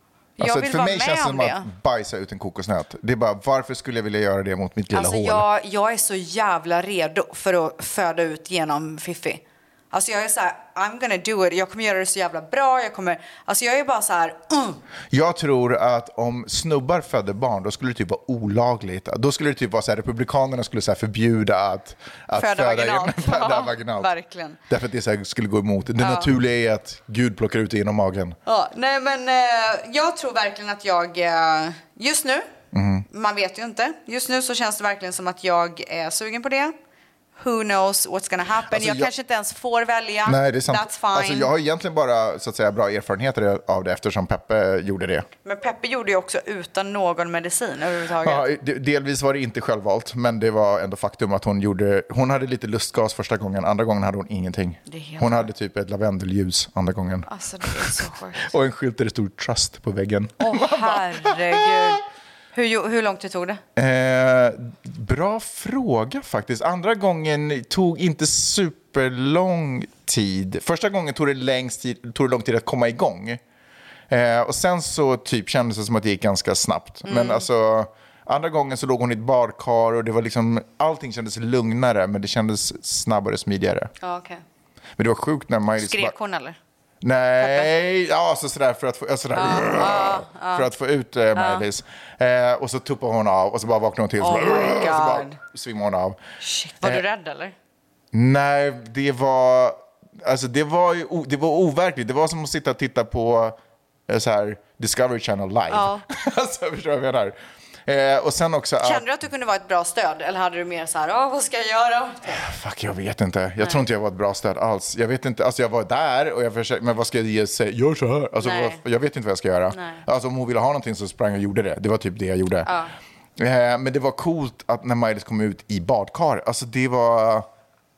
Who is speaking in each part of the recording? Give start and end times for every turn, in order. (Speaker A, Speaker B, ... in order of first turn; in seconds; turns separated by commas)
Speaker A: 0.4-1.7, Speaker B: 0.4-5.5, Speaker A: 4.9-14.8, Speaker B: 15.1-24.1, Speaker A: 22.4-24.6, Speaker B: 24.7-28.4, Speaker A: 26.0-26.3, Speaker A: 28.5-32.5, Speaker B: 32.7-33.1, Speaker A: 33.1-36.7, Speaker A: 37.4-41.5, Speaker B: 38.7-39.1, Speaker B: 40.2-45.3, Speaker A: 45.5-48.5, Speaker B: 48.2-61.9, Speaker A: 54.9-55.5, Speaker A: 57.3-58.5, Speaker A: 60.4-63.6, Speaker B: 63.8-73.4, Speaker B: 74.1-83.9, Speaker A: 77.1-77.5, Speaker A: 84.0-84.4, Speaker B: 85.0-86.2, Speaker A: 85.8-86.6, Speaker B: 87.0-96.2, Speaker A: 87.4-87.7, Speaker A: 89.3-90.7, Speaker A: 91.4-91.6, Speaker A: 94.2-95.4, Speaker A: 96.4-97.5, Speaker B: 98.1-103.6, Speaker B: 104.1-107.3, Speaker A: 105.7-106.0, Speaker B: 107.9-109.0, Speaker A: 108.8-112.5, Speaker B: 112.3-122.7, Speaker A: 118.4-118.8, Speaker A: 119.7-120.0, Speaker A: 122.7-122.9, Speaker B: 123.4-127.5